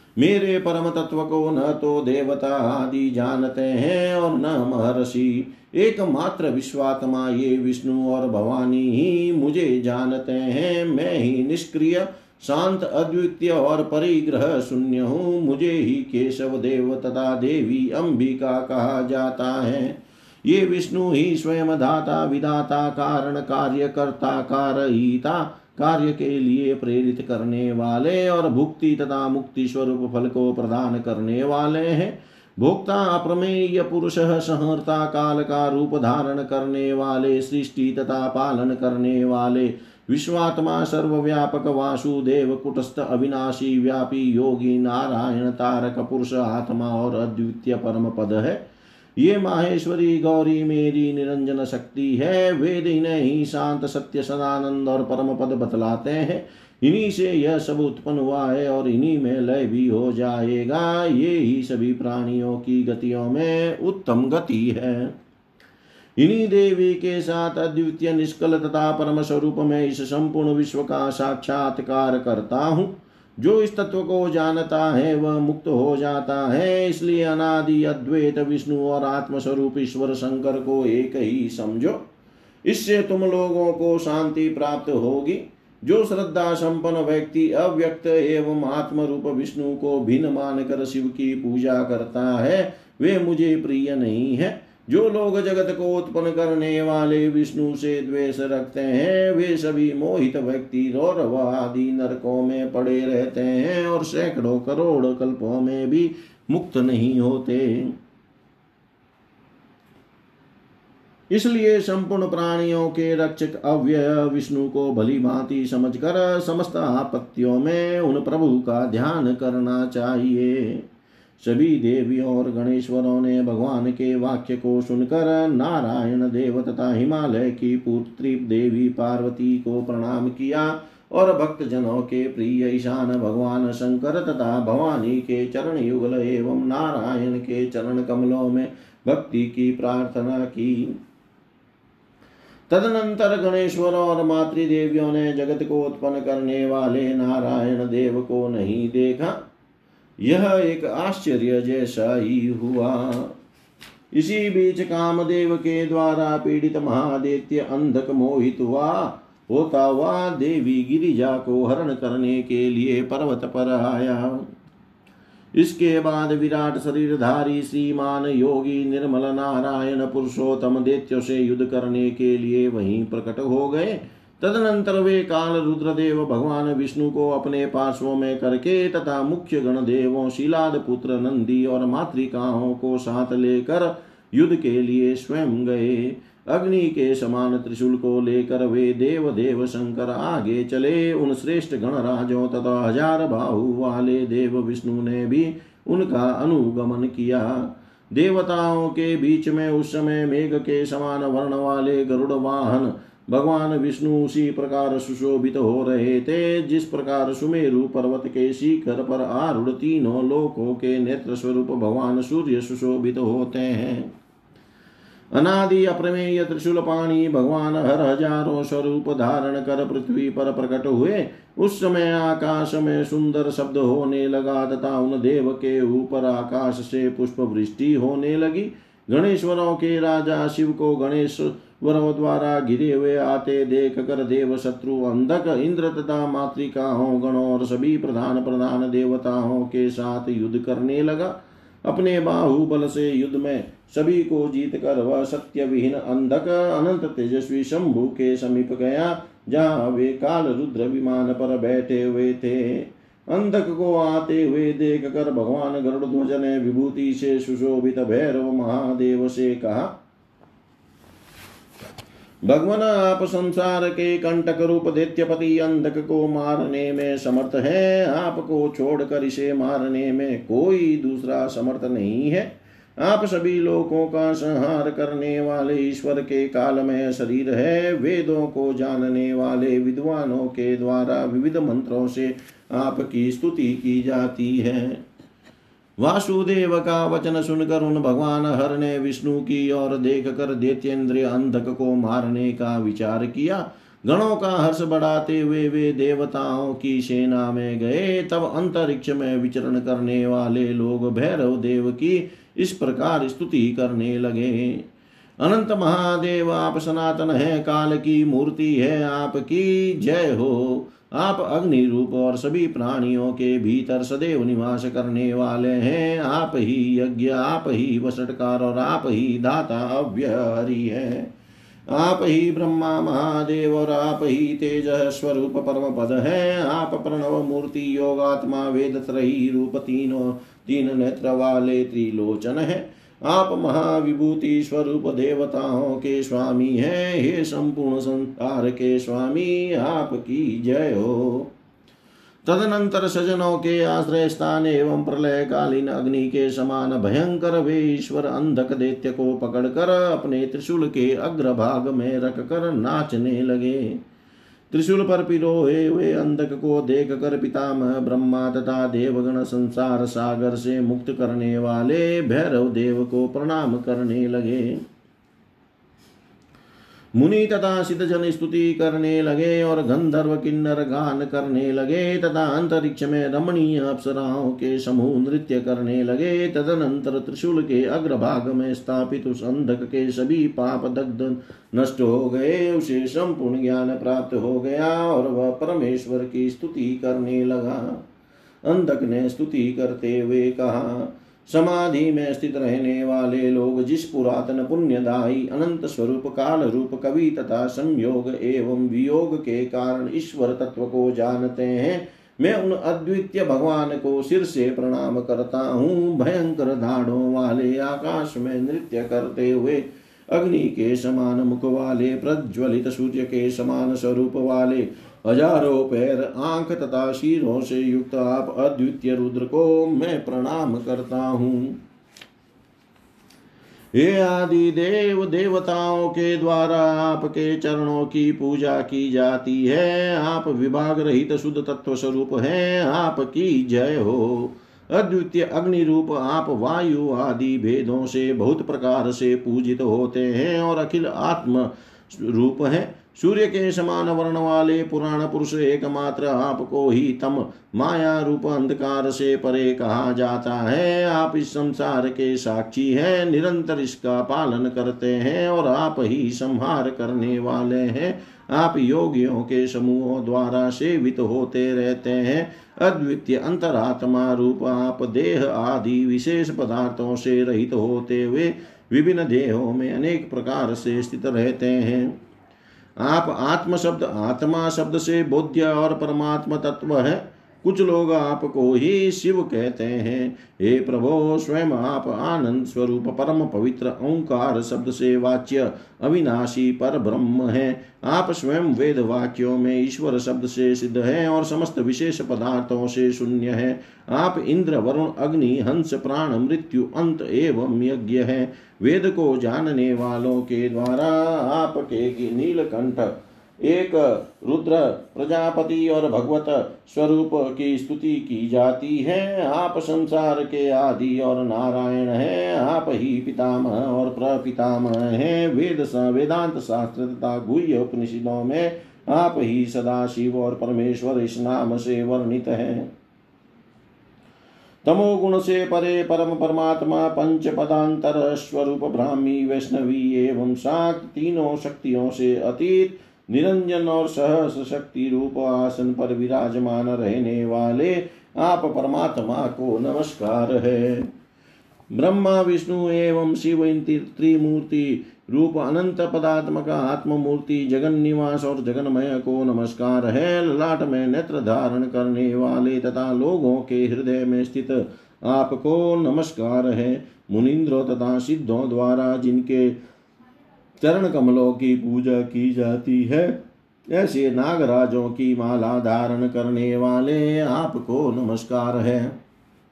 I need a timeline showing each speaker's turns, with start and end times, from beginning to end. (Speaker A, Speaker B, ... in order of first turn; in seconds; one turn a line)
Speaker A: 0.2-48.6
Speaker A: 49.2-65.2
Speaker A: 66.2-82.0
Speaker A: 82.7-108.0
Speaker A: 111.3-120.8
Speaker A: 121.4-141.0
Speaker A: 142.7-149.4
Speaker A: 150.2-153.3
Speaker A: 154.1-164.5
Speaker A: 165.6-214.1
Speaker A: 215.3-259.9
Speaker A: 262.4-285.0
Speaker A: 286.0-304.8
Speaker A: 305.4-321.3
Speaker A: 321.9-341.5
Speaker A: 342.4-354.0
Speaker A: 354.7-364.8
Speaker A: 367.1-388.0
Speaker A: 388.6-421.8
Speaker A: 423.9-472.1
Speaker A: 473.0-522.9
Speaker A: 524.8-541.1
Speaker A: 541.9-559.8
Speaker A: 560.8-569.2